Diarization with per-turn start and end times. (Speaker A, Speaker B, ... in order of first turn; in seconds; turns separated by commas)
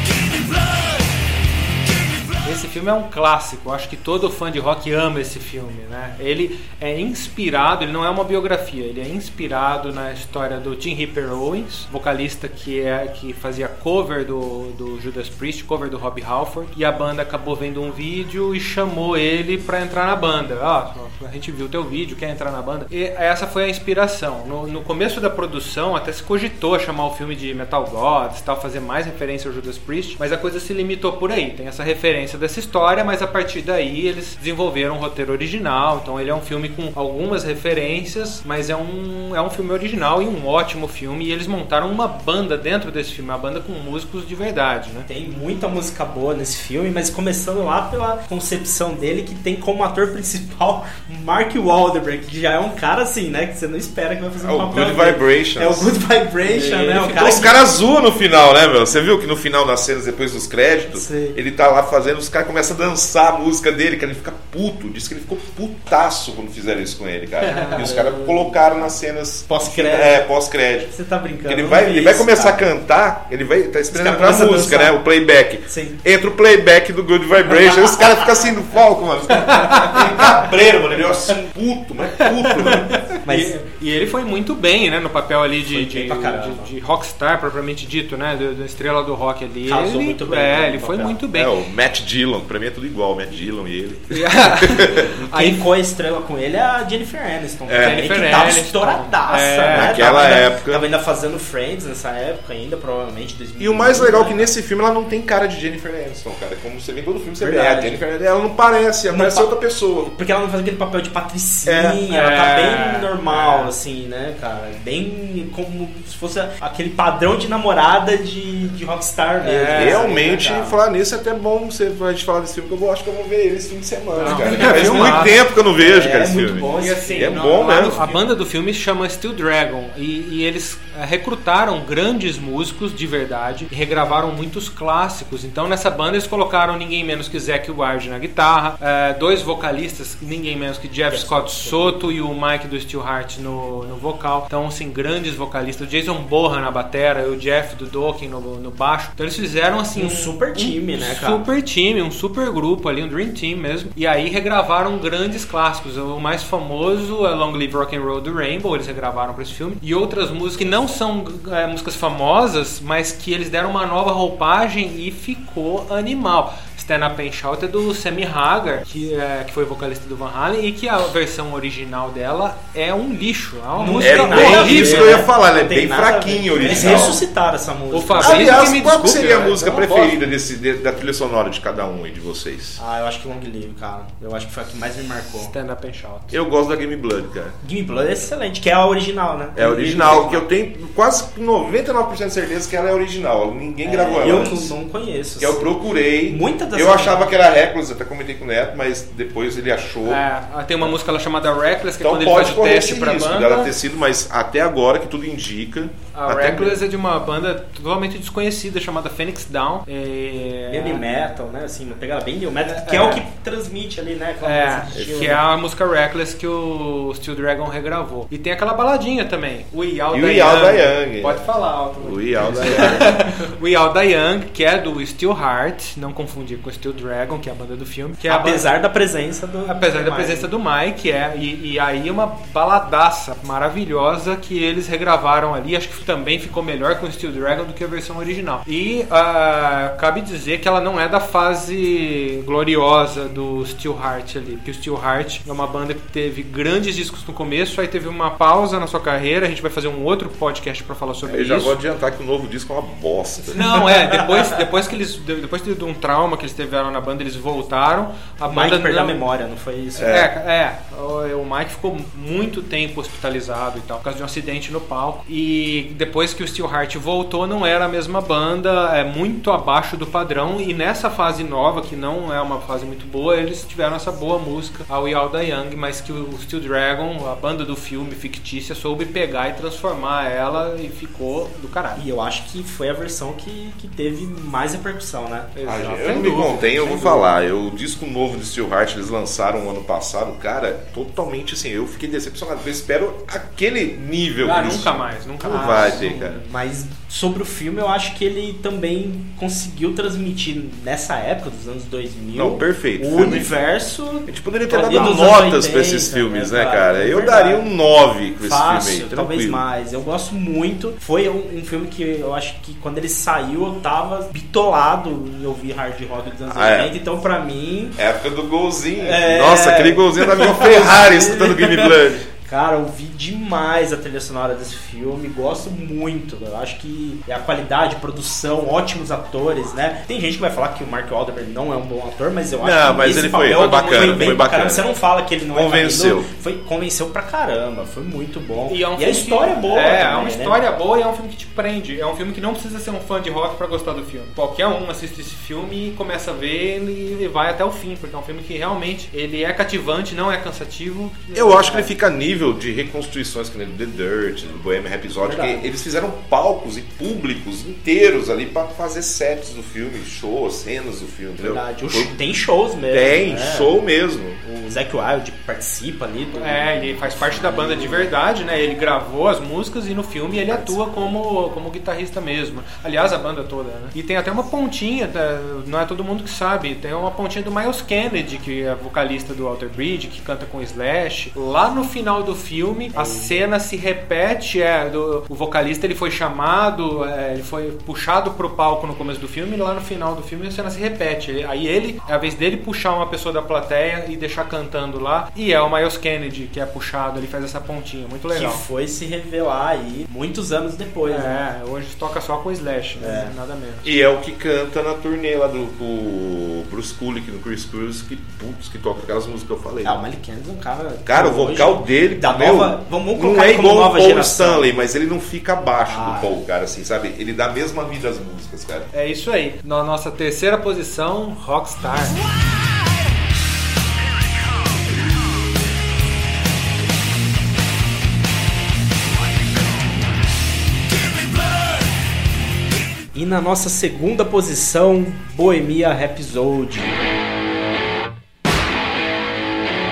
Speaker A: 2.4-45.1, Speaker B: 45.1-57.6, Speaker C: 54.4-55.9, Speaker A: 56.4-57.5, Speaker C: 57.1-70.9, Speaker B: 60.9-61.4, Speaker A: 67.4-67.9, Speaker B: 67.4-69.0, Speaker B: 69.5-70.2, Speaker B: 70.9-72.7, Speaker C: 71.5-83.0, Speaker B: 73.9-75.0, Speaker B: 75.7-76.0, Speaker A: 79.3-80.4, Speaker A: 82.2-91.5, Speaker B: 83.2-83.5, Speaker B: 85.7-86.7, Speaker B: 89.7-91.2, Speaker C: 91.3-95.1, Speaker A: 94.1-95.7, Speaker B: 95.2-104.5, Speaker C: 97.7-98.0, Speaker A: 97.8-100.2, Speaker C: 99.7-100.8, Speaker C: 103.6-110.1, Speaker B: 107.4-108.0, Speaker B: 109.1-109.5, Speaker B: 110.1-120.8, Speaker C: 111.7-112.0, Speaker A: 112.1-113.7, Speaker A: 119.4-120.4, Speaker C: 119.7-128.0, Speaker A: 124.2-125.4, Speaker B: 124.2-128.3, Speaker A: 126.8-175.2, Speaker B: 141.1-142.1, Speaker B: 149.9-151.4, Speaker B: 173.8-178.8, Speaker C: 174.0-177.2, Speaker A: 176.8-177.1, Speaker A: 177.9-180.2, Speaker C: 178.2-182.8, Speaker B: 182.8-185.5, Speaker A: 185.4-186.4, Speaker C: 186.3-187.6, Speaker B: 187.6-190.4, Speaker C: 189.6-194.7, Speaker B: 193.8-197.3, Speaker C: 195.4-200.2, Speaker A: 200.1-203.7, Speaker C: 202.0-206.8, Speaker A: 206.1-211.0, Speaker B: 210.7-215.4, Speaker A: 212.7-213.2, Speaker A: 214.4-228.7, Speaker C: 214.9-215.2, Speaker C: 220.1-221.4, Speaker C: 222.0-223.3, Speaker B: 222.6-223.2, Speaker B: 228.2-230.5, Speaker A: 229.7-251.8, Speaker C: 251.3-253.6, Speaker A: 253.5-259.2, Speaker B: 253.7-254.4, Speaker B: 258.4-260.2, Speaker C: 260.0-260.3, Speaker A: 260.0-282.0, Speaker B: 282.0-285.5, Speaker A: 285.5-287.3, Speaker C: 285.6-296.4, Speaker A: 294.4-296.5, Speaker B: 295.5-307.7, Speaker C: 302.4-303.5, Speaker C: 304.3-309.6, Speaker A: 304.7-305.2, Speaker B: 308.4-318.0, Speaker C: 316.5-316.9, Speaker C: 318.0-322.2, Speaker B: 319.0-340.6, Speaker C: 332.6-334.9, Speaker A: 333.5-334.4, Speaker C: 335.5-336.3, Speaker A: 338.7-351.9, Speaker C: 351.3-362.2, Speaker B: 355.2-355.6, Speaker B: 361.4-363.8, Speaker C: 362.9-364.4, Speaker B: 364.4-368.1, Speaker A: 366.4-398.6, Speaker B: 370.5-370.8, Speaker B: 382.9-383.4, Speaker B: 398.3-401.4, Speaker A: 401.1-403.9, Speaker B: 403.0-403.4, Speaker C: 403.8-410.0, Speaker B: 409.8-414.7, Speaker C: 411.1-418.9, Speaker B: 415.9-416.4, Speaker A: 418.9-422.2, Speaker B: 433.1-437.0